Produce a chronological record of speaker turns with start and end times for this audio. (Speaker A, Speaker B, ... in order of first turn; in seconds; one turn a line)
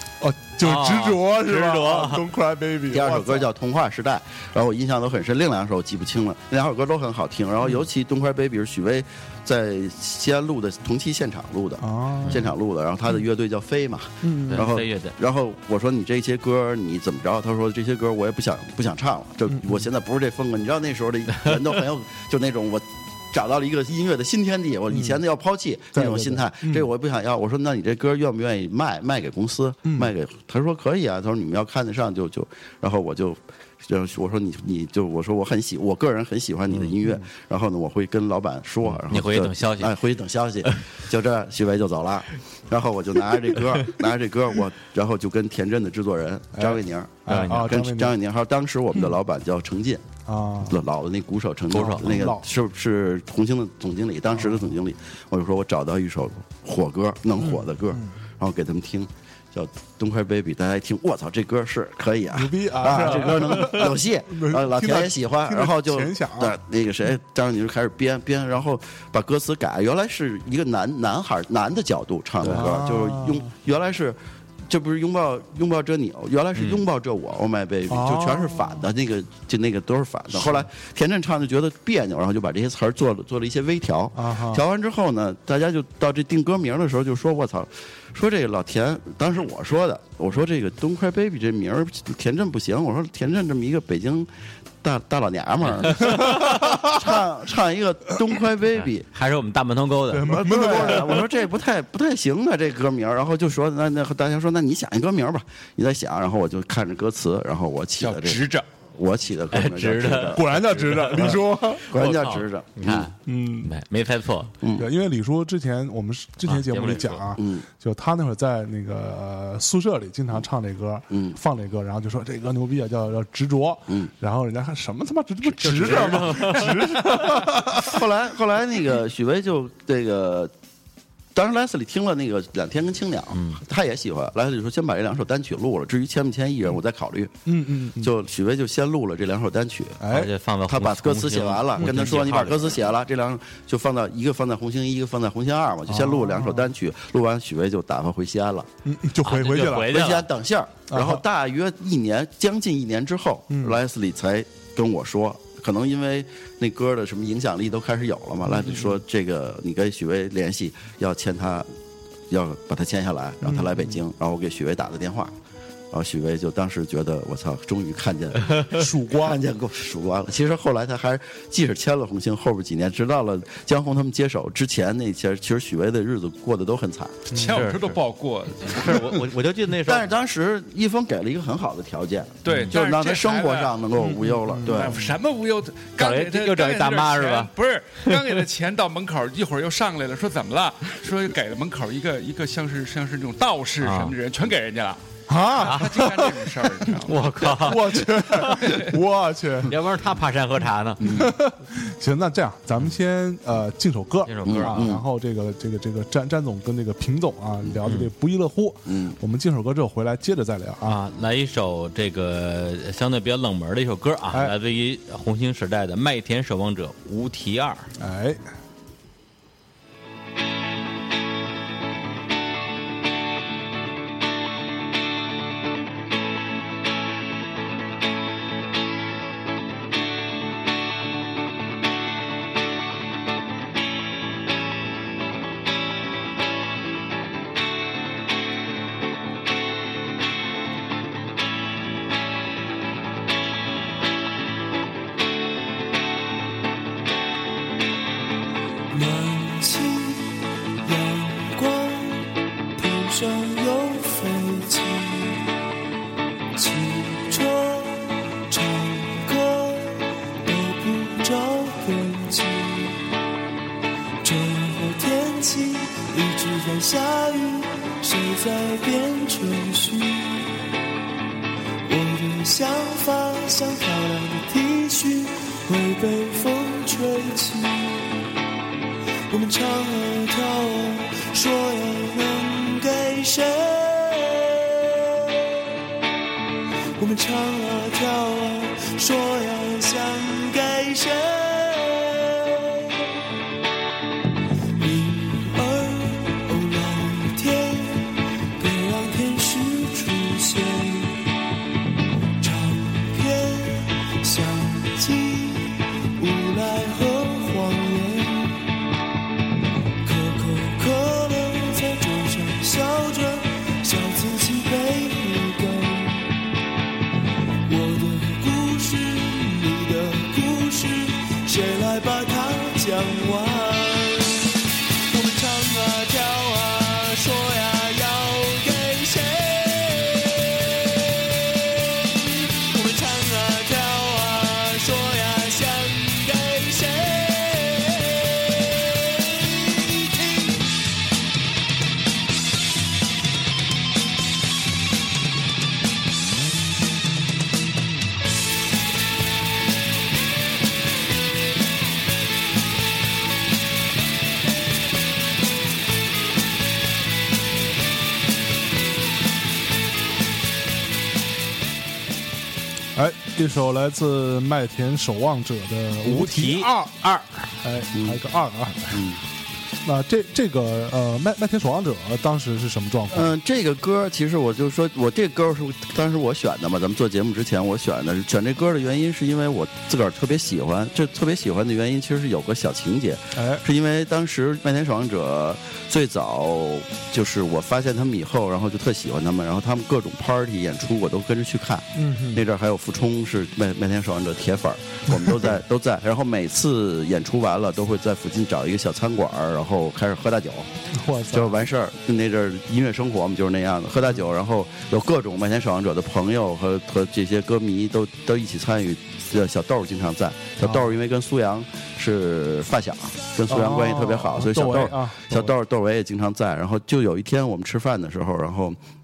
Speaker A: 0.2-3.5
Speaker B: 0.6-2.3
Speaker C: 2.9-50.1
Speaker A: 11.8-12.5
Speaker A: 14.2-14.7
Speaker B: 14.5-15.2
Speaker A: 19.5-19.9
Speaker A: 24.9-25.2
Speaker A: 25.9-26.9
Speaker A: 29.9-30.1
Speaker B: 38.9-39.9
Speaker A: 46.5-48.2
Speaker B: 47.3-47.8
Speaker A: 50.3-50.8
Speaker C: 50.7-94.3
Speaker B: 51.7-52.1
Speaker A: 51.8-52.5
Speaker A: 54.3-54.7
Speaker A: 57.4-58.1
Speaker A: 62.3-66.6
Speaker B: 72.4-72.7
Speaker A: 72.4-73.5
Speaker B: 76.6-76.8
Speaker A: 77.9-78.8
Speaker A: 84.2-84.6
Speaker C: 94.8-99.1
Speaker A: 96.0-97.2
Speaker B: 96.0-96.4
Speaker B: 99.1-100.7
Speaker A: 100.1-101.4
Speaker C: 100.2-113.1
Speaker D: 108.0-108.7
Speaker B: 109.5-111.4
Speaker A: 110.3-112.0
Speaker B: 111.9-114.5
Speaker A: 113.2-113.7
Speaker C: 114.6-114.9
Speaker A: 114.8-128.1
Speaker B: 116.5-117.3
Speaker C: 117.4-117.7
Speaker B: 125.5-127.4
Speaker C: 127.7-130.5
Speaker C: 131.3-137.3
Speaker B: 133.3-133.6
Speaker A: 137.5-138.1
Speaker C: 138.0-140.0
Speaker A: 140.0-140.3
Speaker B: 140.1-142.8
Speaker C: 140.7-148.7
Speaker A: 141.8-142.2
Speaker A: 145.9-146.7
Speaker A: 148.8-150.2
Speaker B: 149.2-150.3
Speaker C: 149.9-161.7
Speaker A: 150.9-151.2
Speaker A: 153.5-153.8
Speaker A: 158.5-159.0
Speaker C: 162.3-165.3
Speaker A: 163.4-164.0
Speaker C: 165.9-177.2
Speaker A: 168.7-169.4
Speaker A: 177.3-177.6
Speaker D: 177.3-179.2
Speaker B: 177.5-178.0
Speaker B: 178.7-180.1
Speaker C: 179.8-185.0
Speaker D: 182.4-183.8
Speaker B: 182.5-182.7
Speaker A: 184.0-185.1
Speaker D: 184.6-195.0
Speaker B: 186.0-188.2
Speaker B: 193.8-194.1
Speaker A: 195.3-199.8
Speaker D: 195.5-197.8
Speaker B: 195.6-195.9
Speaker B: 197.0-198.7
Speaker D: 198.6-199.0
Speaker B: 199.6-201.3
Speaker C: 201.0-201.3
Speaker A: 201.0-211.0
Speaker B: 204.2-204.9
Speaker C: 204.4-205.0
Speaker B: 207.8-208.1
Speaker C: 208.9-209.2
Speaker B: 210.8-217.9
Speaker A: 214.3-214.6
Speaker A: 218.0-218.4
Speaker E: 248.9-255.5
Speaker E: 256.6-263.0
Speaker E: 264.2-270.6
Speaker E: 271.9-278.3
Speaker E: 279.3-285.7
Speaker E: 287.0-293.1
Speaker E: 294.8-301.2
Speaker E: 302.4-308.6
Speaker E: 310.0-316.3
Speaker E: 317.7-324.6
Speaker E: 325.1-340.7
Speaker A: 362.9-367.0
Speaker B: 366.1-367.5
Speaker A: 367.6-369.0
Speaker C: 367.9-368.2
Speaker C: 368.9-369.2
Speaker A: 369.8-373.4
Speaker C: 373.1-400.7
Speaker A: 383.4-383.6
Speaker A: 391.9-392.5
Speaker A: 395.1-395.6
Speaker A: 400.9-401.6
Speaker C: 401.3-418.8
Speaker A: 410.6-410.9
Speaker A: 413.5-415.5